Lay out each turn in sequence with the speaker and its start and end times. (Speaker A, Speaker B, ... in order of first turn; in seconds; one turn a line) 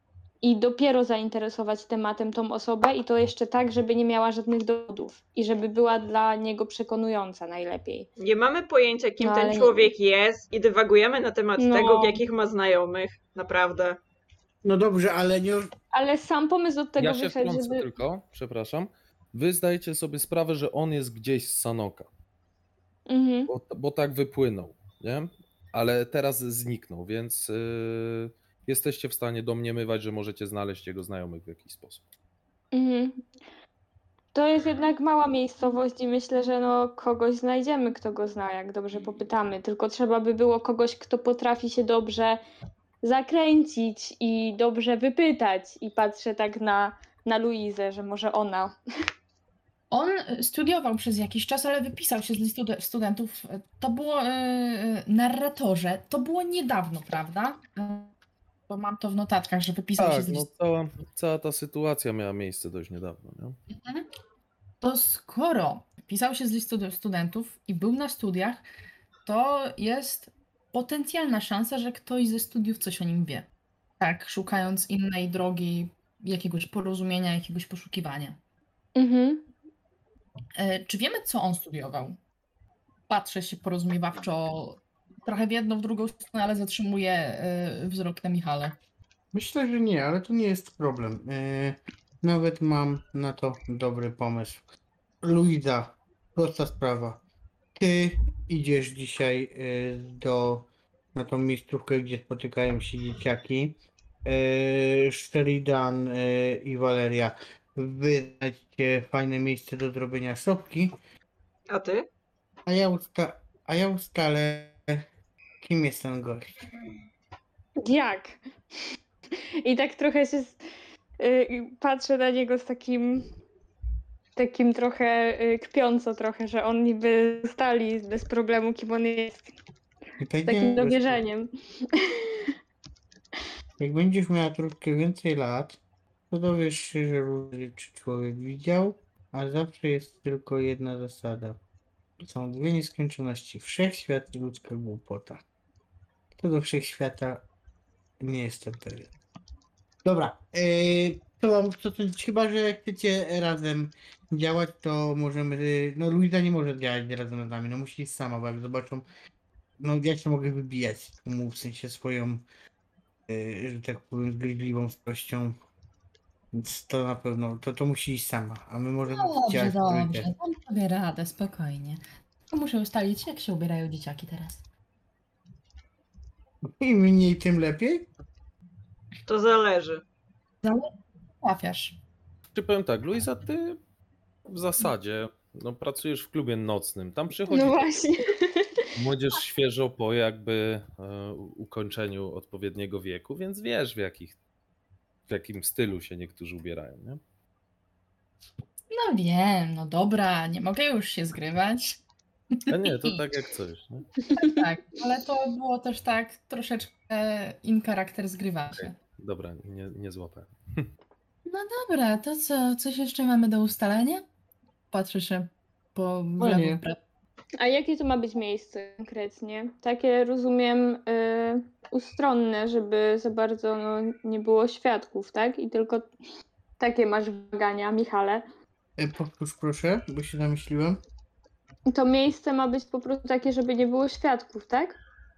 Speaker A: 0.4-8.1
Speaker B: 8.2-14.0
Speaker A: 9.2-9.9
Speaker A: 11.6-12.2
Speaker C: 14.6-15.7
Speaker A: 15.9-17.9
Speaker D: 17.0-22.1
Speaker A: 23.1-23.5
Speaker D: 23.5-32.0
Speaker A: 32.7-33.3
Speaker A: 34.3-42.4
Speaker A: 43.0-48.7
Speaker E: 49.9-58.1
Speaker E: 58.7-60.5
Speaker D: 60.0-63.6
Speaker E: 63.7-64.0
Speaker E: 64.8-68.6
Speaker E: 69.2-73.5
Speaker E: 74.0-78.4
Speaker A: 79.0-79.5
Speaker E: 80.6-82.2
Speaker E: 83.1-88.8
Speaker C: 89.3-94.6
Speaker C: 95.2-97.2
Speaker C: 97.8-110.9
Speaker B: 111.7-112.1
Speaker C: 112.7-115.0
Speaker C: 115.6-116.5
Speaker A: 117.8-118.4
Speaker A: 119.6-120.6
Speaker A: 121.2-123.3
Speaker A: 124.3-129.6
Speaker C: 130.2-131.2
Speaker A: 130.4-132.5
Speaker C: 133.8-135.8
Speaker C: 136.3-141.6
Speaker C: 142.2-145.4
Speaker C: 146.4-147.4
Speaker C: 148.2-149.1
Speaker C: 150.0-159.1
Speaker C: 159.8-162.4
Speaker C: 163.3-165.5
Speaker C: 166.5-170.3
Speaker E: 169.1-174.6
Speaker C: 176.8-178.1
Speaker B: 179.2-180.0
Speaker E: 180.6-180.9
Speaker E: 181.4-182.0
Speaker D: 182.5-183.8
Speaker D: 184.5-187.8
Speaker A: 187.5-188.9
Speaker D: 188.9-194.3
Speaker D: 195.3-197.2
Speaker E: 198.9-202.0
Speaker D: 202.7-204.1
Speaker A: 204.2-204.6
Speaker E: 204.4-208.9
Speaker D: 208.8-210.9
Speaker E: 211.4-214.2
Speaker E: 214.9-217.0
Speaker C: 216.4-216.8
Speaker A: 217.6-226.1
Speaker A: 226.8-228.4
Speaker C: 229.0-231.0
Speaker A: 231.9-235.0